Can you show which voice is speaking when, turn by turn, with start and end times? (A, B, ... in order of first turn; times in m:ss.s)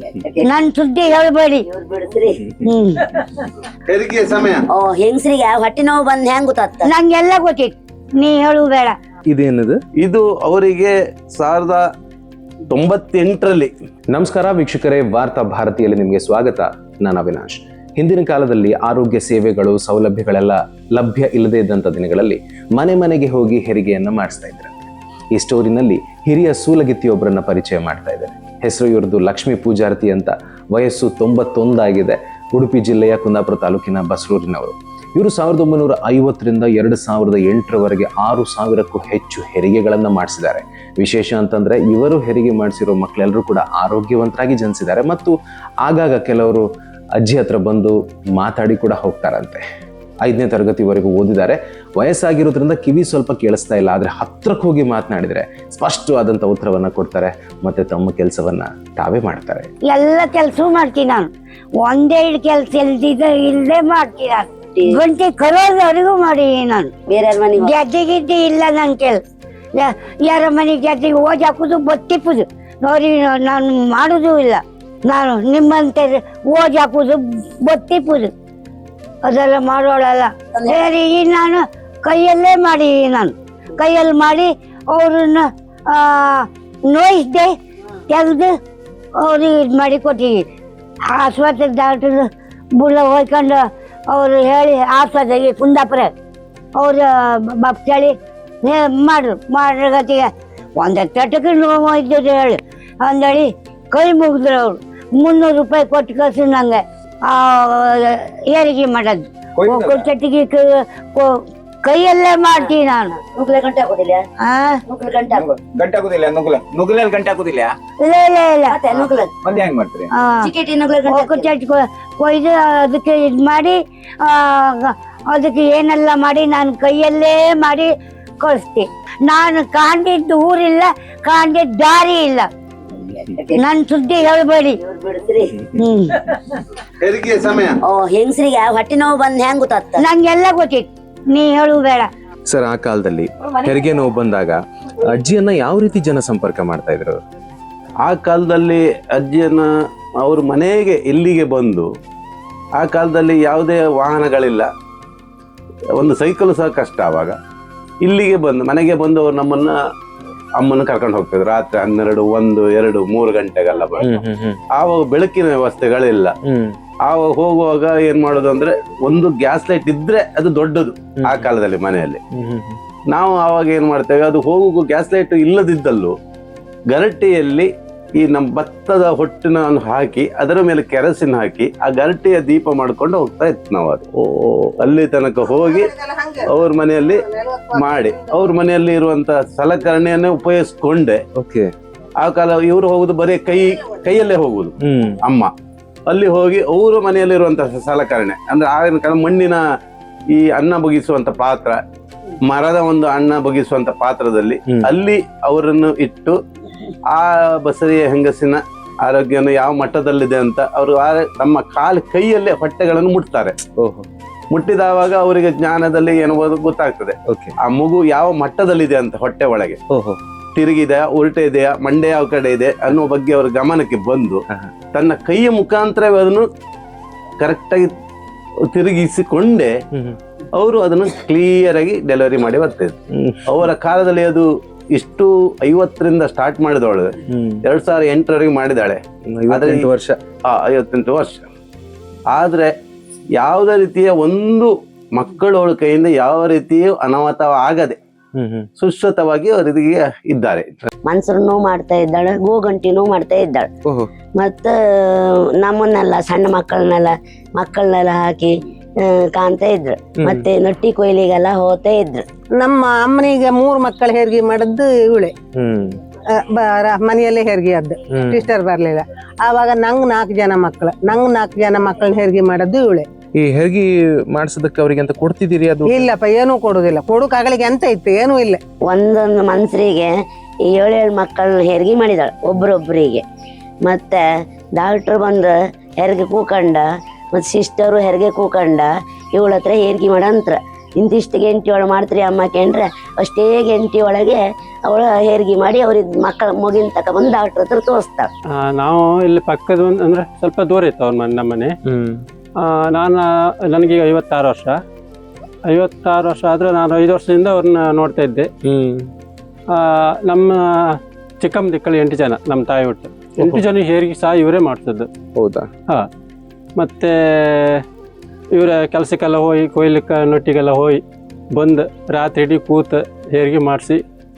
0:00.4-0:01.6 A
0:01.7-0:02.4 B
0:02.6-0:03.0 A
0:03.9-0:04.6 C
0:04.7-0:06.9 B
0:06.8-0:09.0 A
0:09.3-0:09.8 D
0:10.0-0:11.8 C
0:12.7-0:13.7 C
0:14.1-0:45.3 D
0:45.8-0:46.6 D
0:47.2-0:49.6 D
0:50.2-0:59.7 D
0:59.8-1:01.3 A
1:01.8-1:06.9 A
1:07.1-1:07.7 B
1:07.6-1:09.2 A
1:09.8-1:18.3 A
1:19.2-1:27.5 A
1:28.1-1:28.5 A
1:29.2-1:30.4 A
1:31.1-1:36.1 A
1:36.8-1:53.1 A
1:49.6-1:50.0 E
1:53.2-1:54.2 B
1:54.4-1:54.8 A
1:54.9-1:55.5 B
1:55.3-1:57.7 E
1:58.0-1:58.8 A
1:58.7-1:59.3 B
1:59.0-2:00.1 E
2:00.1-2:00.5 A
2:00.4-2:01.5 B
2:01.1-2:12.5 A
2:13.5-2:14.8 A
2:14.8-2:15.5 B
2:15.8-2:16.2 A
2:17.0-2:17.8 C
2:17.8-2:20.0 B
2:20.0-2:22.1 A
2:22.5-2:27.2 D
2:28.0-2:29.6 C
2:30.2-2:31.9 C
2:32.8-2:34.7 C
2:36.0-2:37.4 C
2:38.0-2:39.7 C
2:40.6-2:44.1 C
2:44.0-2:44.6 D
2:44.8-2:46.3 C
2:47.1-2:52.2 C
2:52.4-2:52.8 D
2:53.1-2:56.1 C
2:56.9-3:04.0 C
3:04.4-3:04.7 D
3:04.8-3:05.9 C
3:05.7-3:06.5 F
3:06.4-3:07.2 C
3:07.3-3:08.0 F
3:07.7-3:11.2 C
3:11.4-3:11.7 D
3:12.2-3:14.7 C
3:14.8-3:15.2 D
3:15.2-3:15.5 C
3:16.1-3:19.6 C
3:20.3-3:21.8 C
3:22.4-3:26.4 C
3:27.1-3:33.6 C
3:33.8-3:34.0 D
3:34.5-3:39.8 C
3:39.9-3:40.2 D
3:40.6-3:44.4 C
3:44.9-3:46.4 C
3:47.4-3:47.9 C
3:48.7-3:49.7 C
3:50.6-3:53.0 C
3:53.5-3:57.1 C
3:57.6-3:59.9 C
3:59.3-4:00.1 D
4:00.5-4:01.4 C
4:02.3-4:02.7 C
4:03.4-4:08.0 C
4:08.4-4:08.7 D
4:08.8-4:10.7 C
4:11.0-4:13.7 B
4:14.4-4:18.5 B
4:19.3-4:22.2 B
4:22.5-4:25.3 F
4:25.6-4:25.9 D
4:26.3-4:33.1 F
4:28.2-4:28.5 D
4:33.4-4:36.0 D
4:35.8-4:38.6 F
4:38.8-4:40.1 B
4:40.7-4:43.2 B
4:43.9-4:44.2 B
4:44.8-4:58.3 B
4:58.6-5:01.8 G
5:01.9-5:02.2 D
5:02.6-5:04.8 G
5:05.7-5:08.5 G
5:08.7-5:09.1 D
5:09.7-5:15.1 G
5:15.4-5:15.6 D
5:16.8-5:17.8 G
5:18.5-5:21.0 G
5:21.6-5:24.0 G